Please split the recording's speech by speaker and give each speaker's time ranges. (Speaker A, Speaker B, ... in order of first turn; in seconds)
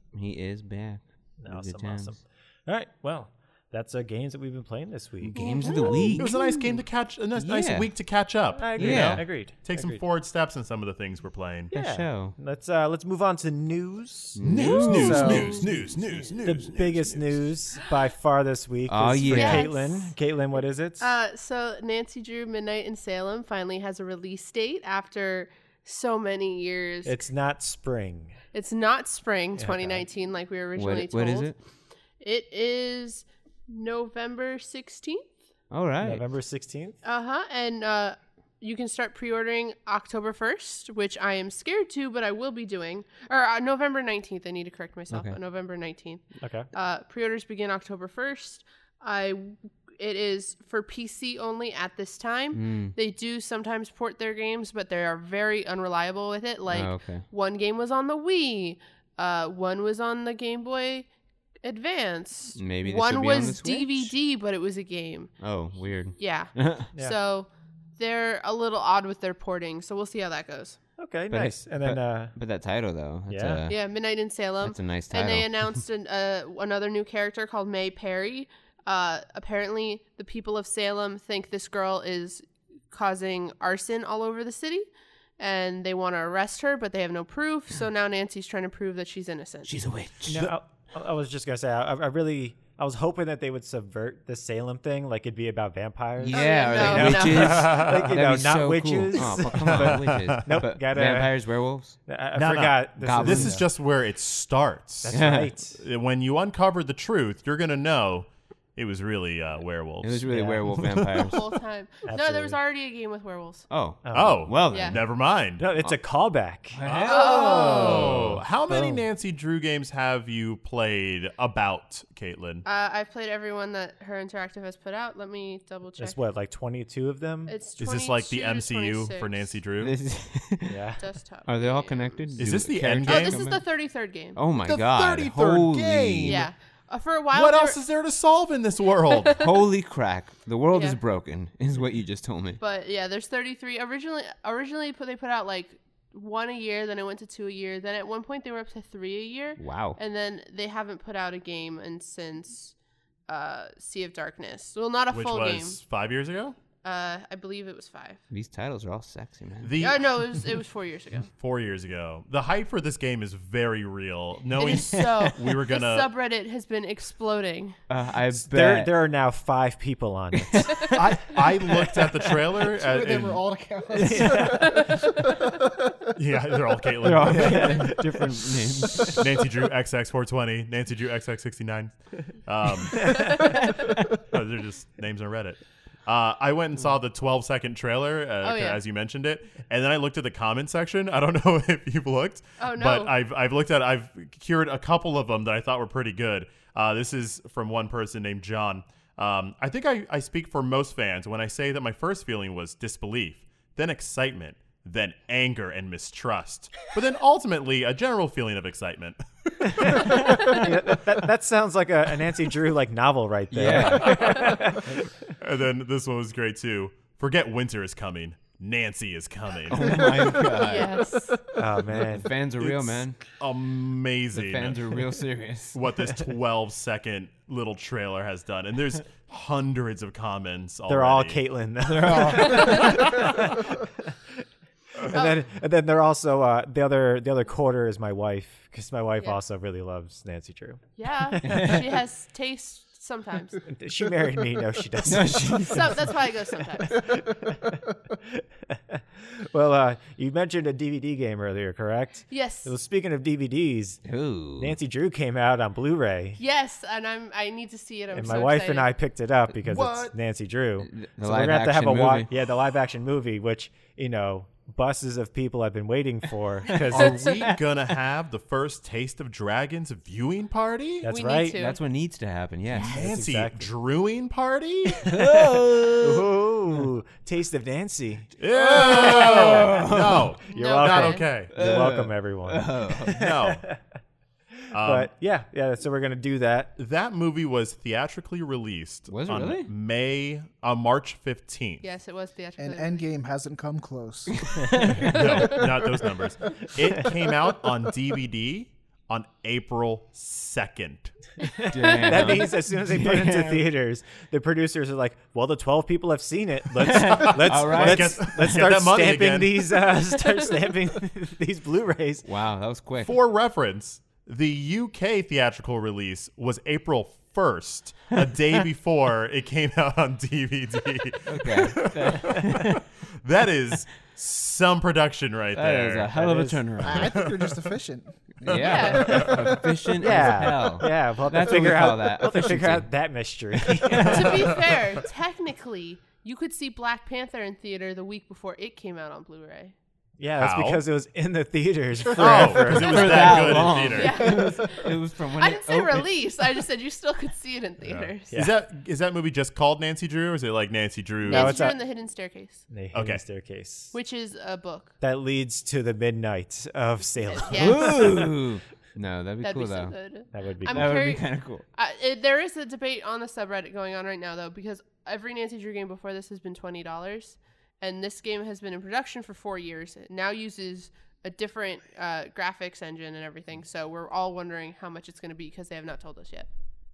Speaker A: 0.1-2.1, 5.2-6.4, 7.3-7.9, 8.8-9.3, 11.7-12.3, 14.3-15.6, 18.9-19.7, 30.8-31.6, 35.7-36.2, 45.1-45.4, 52.5-52.9, 56.7-57.2, 62.5-64.1, 65.4-66.9, 71.3-73.9, 74.6-75.5, 89.7-90.5, 96.2-102.0, 103.0-103.6, 105.1-105.5, 110.0-111.4, 113.7-115.0, 116.7-118.4, 129.8-130.8, 131.4-133.6, 134.3-136.4, 139.4-142.6, 149.6-150.0, 158.3-159.8, 164.9-165.3, 167.9-168.9, 170.4-172.1, 174.0-174.5, 177.0-179.2, 213.5-214.6, 219.7-221.1, 221.9-223.2, 224.3-225.8, 232.1-232.4, 241.4-241.9, 245.0-246.1, 254.0-254.8, 260.8-262.3, 266.7-267.6, 271.6-273.0, 275.0-276.3, 278.5-280.3, 281.5-283.2, 289.1-289.7, 294.3-295.5, 301.7-303.6, 306.8-308.6, 312.2-313.1, 321.3-322.8, 325.5-327.2, 328.4-332.9, 333.7-334.6, 342.4-346.1, 357.5-360.0, 360.7-361.6
Speaker B: 1.4-5.3, 8.6-10.0, 11.7-15.8, 16.4-21.1, 27.0-28.4, 29.6-30.0, 36.0-37.0, 46.4-46.7, 71.0-72.3, 73.3-73.6, 90.3-101.4, 102.1-103.7, 105.0-105.8, 110.3-110.7, 112.0-112.6, 114.0-114.6, 115.6-116.8, 118.0-119.0, 126.0-127.5, 130.7-131.0, 168.3-170.9, 174.0-174.9, 177.2-179.2, 209.7-215.1, 221.5-222.3, 230.9-234.4, 235.0-241.8, 243.6-246.1, 246.6-254.0, 254.6-256.4, 258.1-267.2, 271.0-271.6, 272.9-273.7, 276.0-278.3, 280.5-283.8, 284.6-286.7, 301.5-312.2, 326.1-326.6, 330.0-334.4, 340.2-343.8, 351.3-351.8, 352.7-353.9, 355.0-358.3, 360.3-360.9
Speaker C: 5.4-6.2, 15.1-15.6, 19.2-20.1, 21.0-27.2, 28.5-31.5, 32.2-35.3, 37.0-61.1, 61.6-65.3, 66.2-70.8, 73.7-89.7, 96.3-97.8, 111.2-113.7, 114.7-115.0, 117.0-118.1, 122.6-126.2, 127.5-129.6, 131.0-132.3, 133.0-134.4, 136.2-137.8, 139.1-139.5, 140.7-141.0, 142.6-152.7, 153.3-155.8, 156.8-158.2, 159.8-161.3, 164.6-167.8, 174.4-175.2, 183.0-183.8, 188.4-188.8, 192.6-193.1, 220.6-221.4, 232.4-232.9, 235.1-235.4, 241.0-243.6, 245.7-247.1, 252.3-252.7, 256.4-258.9, 271.1-271.8, 280.5-281.3, 291.8-293.1, 328.5-329.3, 334.1-339.7, 343.9-348.4, 351.2-352.6, 353.9-354.9, 357.3-358.3, 359.4-376.5
Speaker D: 6.2-11.7, 14.4-17.4, 97.6-98.1, 99.5-100.4, 102.3-111.2, 114.1-115.6, 116.8-122.6, 127.8-129.9, 132.4-133.5, 134.6-136.5, 137.3-139.4, 155.1-156.6, 159.6-160.5, 161.4-166.1, 170.9-173.4, 176.1-177.9, 179.1-210.2, 214.2-214.4, 215.4-220.4, 222.6-225.0, 225.7-231.4, 232.6-233.3, 259.6-260.1, 266.9-271.1, 272.8-275.2, 278.4-281.5, 283.1-283.6, 284.7-285.1, 286.8-291.8, 295.1-301.1, 307.1-309.7, 313.0-322.7, 323.2-326.1, 327.0-327.5, 334.2-334.7, 340.4-340.8, 342.1-344.3, 347.8-351.6, 352.9-353.2
Speaker E: 172.6-176.1, 292.6-295.7, 296.6-297.3, 326.8-329.8